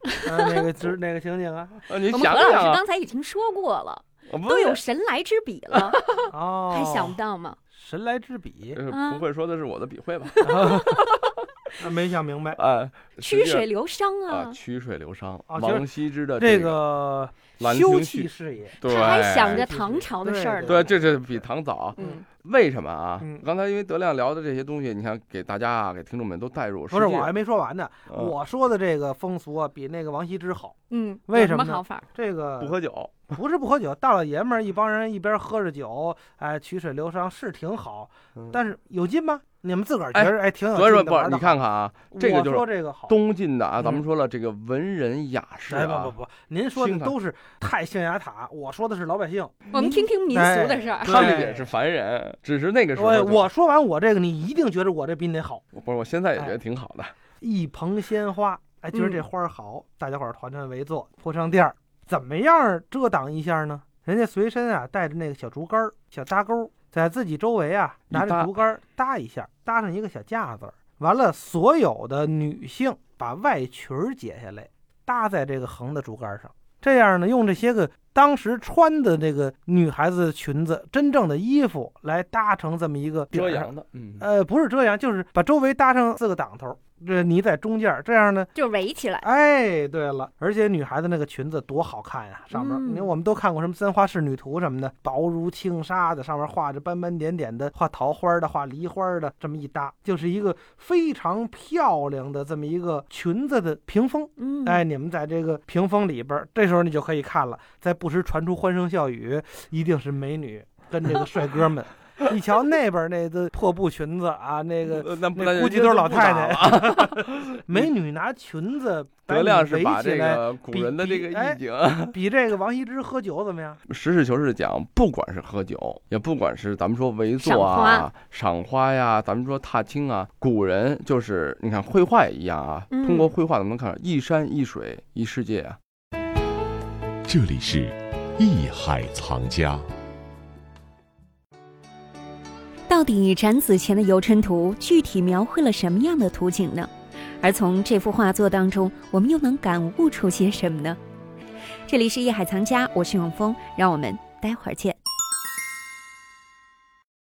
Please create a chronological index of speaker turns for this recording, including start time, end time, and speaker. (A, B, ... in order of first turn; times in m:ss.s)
0:00.2-0:01.9 A
0:01.9-0:02.8 B
0:02.1-0:07.6 C
0:04.3-0:04.8 B
0:06.3-0:07.2 A
0:07.7-0:08.8 A
0:08.7-0:11.0 B
0:08.9-0:09.2 C
0:10.4-0:11.1 C
0:10.4-0:10.8 A
0:11.8-0:12.6 A
0:12.6-0:13.7 B
0:13.2-0:14.6 C
0:14.3-0:16.8 B
0:15.5-0:15.8 A
0:16.4-0:21.2 A
0:17.6-0:19.6 B
0:18.8-0:20.8 C
0:20.7-0:27.3 B
0:22.0-0:22.2 C
0:26.9-0:30.7 A
0:28.1-0:28.3 B
0:30.9-0:32.0 C
0:31.3-0:32.7 A
0:32.6-0:33.3 B
0:33.3-0:41.6 A
0:40.1-0:46.2 B
0:42.1-0:43.1 A
0:45.7-0:51.7 A
0:46.7-0:47.2 B
0:49.7-0:51.3 C
0:51.0-0:53.4 B
0:53.0-0:55.6 A
0:55.7-0:57.1 B
0:57.4-1:28.5 A
0:58.9-0:59.2 C
1:08.1-1:08.5 B
1:23.3-1:24.3 B
1:28.5-1:29.2 C
1:29.2-2:03.8 A
1:32.5-1:33.1 C
1:44.4-1:44.8 C
1:54.8-1:57.9 B
1:59.3-2:02.2 B
2:03.9-2:15.8 B
2:07.4-2:08.1 C
2:12.9-2:13.3 C
2:17.2-2:19.9 D
2:22.9-2:31.0 E
2:31.9-2:35.0 E